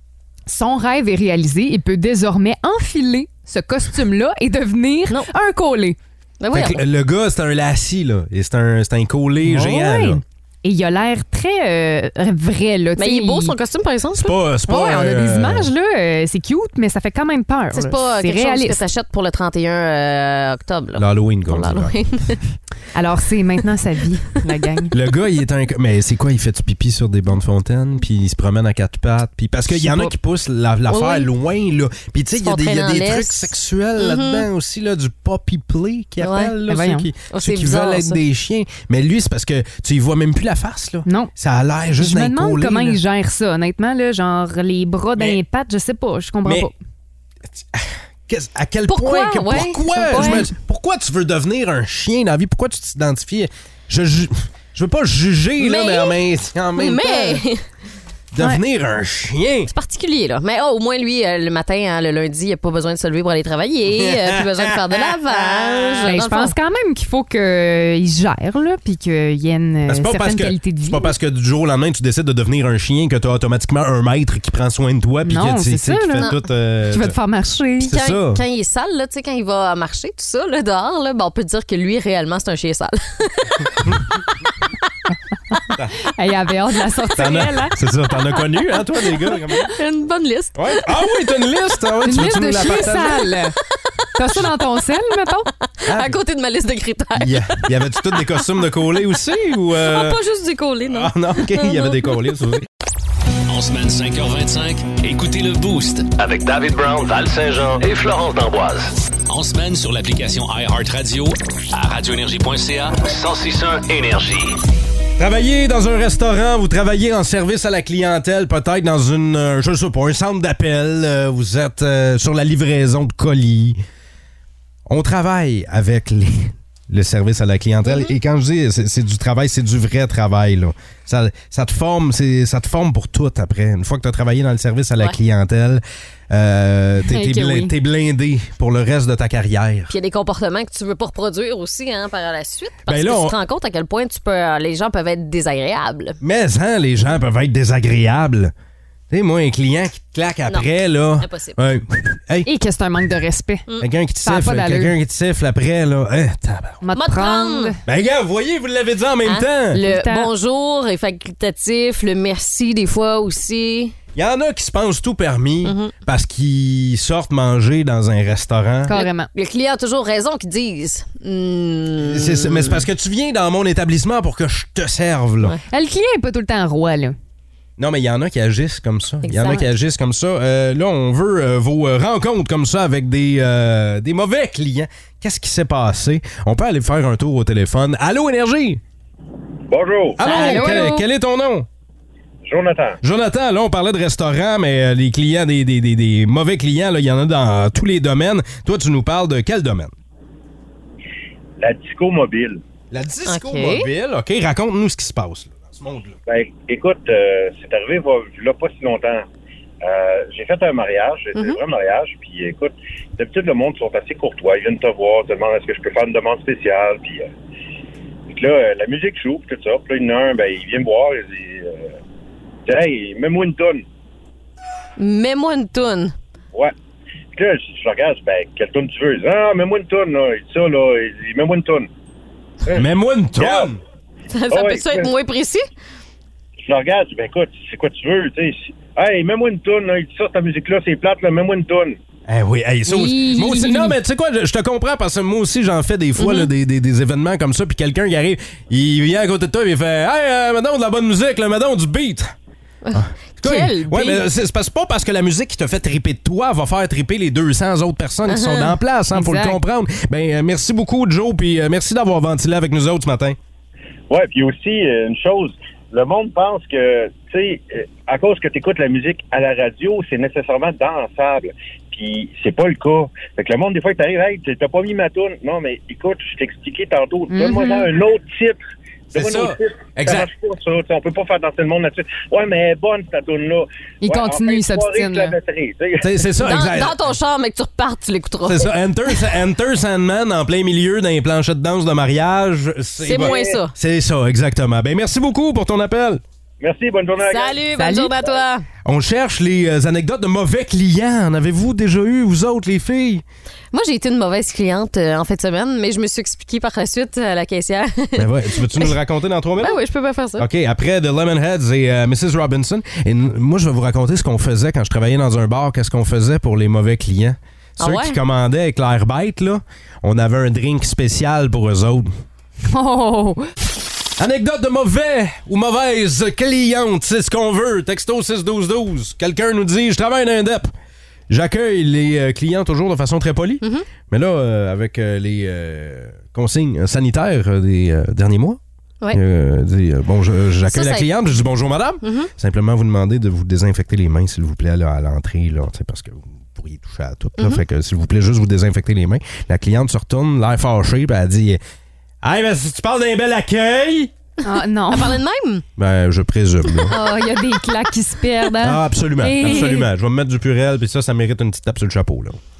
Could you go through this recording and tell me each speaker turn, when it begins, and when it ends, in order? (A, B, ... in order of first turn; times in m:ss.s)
0:00.5-0:06.0 A
0:06.4-0:06.8 B
0:06.5-0:10.2 C
0:09.4-0:13.5 A
0:13.0-0:14.4 B
0:14.1-0:15.7 C
0:14.7-0:18.8 A
0:17.7-0:22.4 B
0:21.0-0:22.0 C
0:22.9-0:24.9 A
0:24.9-0:43.0 C
0:29.7-0:30.1 A
0:30.9-0:31.3 B
0:32.4-0:34.5 B
0:36.2-0:36.5 B
0:36.7-0:37.1 A
0:37.3-0:38.2 B
0:41.0-0:41.3 A
0:42.0-0:46.7 A
0:46.4-0:46.7 C
0:47.5-0:57.4 C
0:48.9-0:50.5 B
0:55.6-0:56.2 B
0:56.8-0:57.6 B
0:58.3-0:59.7 C
0:59.7-1:06.5 B
1:03.9-1:06.1 C
1:06.0-1:11.1 A
1:09.9-1:17.2 C
1:15.2-1:16.3 A
1:16.9-1:17.9 A
1:17.8-1:18.4 C
1:17.8-1:23.7 B
1:26.1-1:27.7 A
1:27.2-1:29.7 C
1:29.7-1:31.0 B
1:30.5-1:33.4 C
1:32.0-1:33.6 A
1:34.2-1:35.5 A
1:35.8-1:38.4 B
1:35.9-1:36.2 C
1:37.2-1:40.2 C
1:39.7-1:42.1 B
1:40.8-1:42.7 C
1:43.5-1:46.1 D
1:46.2-1:48.9 E
1:49.3-1:53.0 D
1:53.0-1:54.6 E
1:55.2-2:03.8 C
2:04.9-2:19.9 C
2:07.8-2:08.1 B
2:17.1-2:17.7 A
2:19.9-2:26.2 B
2:22.9-2:23.3 C
2:26.2-2:28.5 C
2:29.1-2:32.5 C
2:31.2-2:31.6 B
2:32.4-2:33.7 A
2:33.8-2:36.8 C
2:34.2-2:34.9 A
2:36.8-2:37.8 A
2:36.9-2:37.7 B
2:37.8-2:39.8 C
2:39.2-2:43.9 B
2:39.7-2:40.3 A
2:44.1-2:48.9 C
2:45.6-2:45.9 B
2:48.9-2:49.3 A
2:48.9-2:52.8 B
2:52.0-2:55.6 C
2:55.7-2:57.2 A
2:57.8-3:08.8 C
2:59.2-2:59.6 B
3:09.7-3:10.2 F
3:10.2-3:11.7 C
3:10.2-3:11.0 A
3:12.4-3:13.0 F
3:13.0-3:19.9 C
3:21.6-3:22.6 F
3:22.9-3:26.2 C
3:23.3-3:23.9 B
3:26.3-3:29.2 F
3:29.8-3:37.3 F
3:31.3-3:31.6 B
3:38.3-3:41.9 F
3:42.6-3:43.8 F
3:45.0-3:46.1 B
3:47.3-3:51.9 F
3:52.6-3:53.7 F
3:52.7-3:53.8 C
3:54.3-3:55.6 B
3:54.5-3:55.1 F
3:56.6-4:02.0 F
4:02.3-4:12.3 C
4:02.8-4:04.0 A
4:06.2-4:06.5 B
4:12.8-4:14.3 B
4:12.9-4:23.4 C
4:18.3-4:18.7 B
4:19.1-4:19.6 A
4:24.1-4:38.6 F
4:37.3-4:37.9 A
4:39.1-4:46.1 F
4:39.1-4:40.3 C
4:44.0-4:45.4 A
4:46.0-4:47.0 C
4:46.4-4:49.2 B
4:48.4-4:56.2 C
4:53.0-4:53.7 B
4:53.2-4:53.6 F
4:56.6-4:57.7 F
4:57.2-4:58.6 B
4:57.8-4:58.1 A
4:58.8-5:03.2 C
5:03.7-5:08.9 B
5:08.2-5:09.8 C
5:09.6-5:10.5 B
5:10.4-5:22.1 C
5:17.8-5:18.2 B
5:22.6-5:23.5 A
5:24.2-5:30.7 C
5:31.3-5:38.6 C
5:33.6-5:33.9 B
5:39.1-5:51.6 C
5:40.7-5:41.1 B
5:42.0-5:42.3 B
5:52.2-5:54.1 C
5:54.4-5:55.2 A
5:54.9-5:55.6 B
5:55.8-5:56.9 C
5:56.9-5:57.2 B
5:56.9-5:59.9 A
5:58.6-6:02.4 C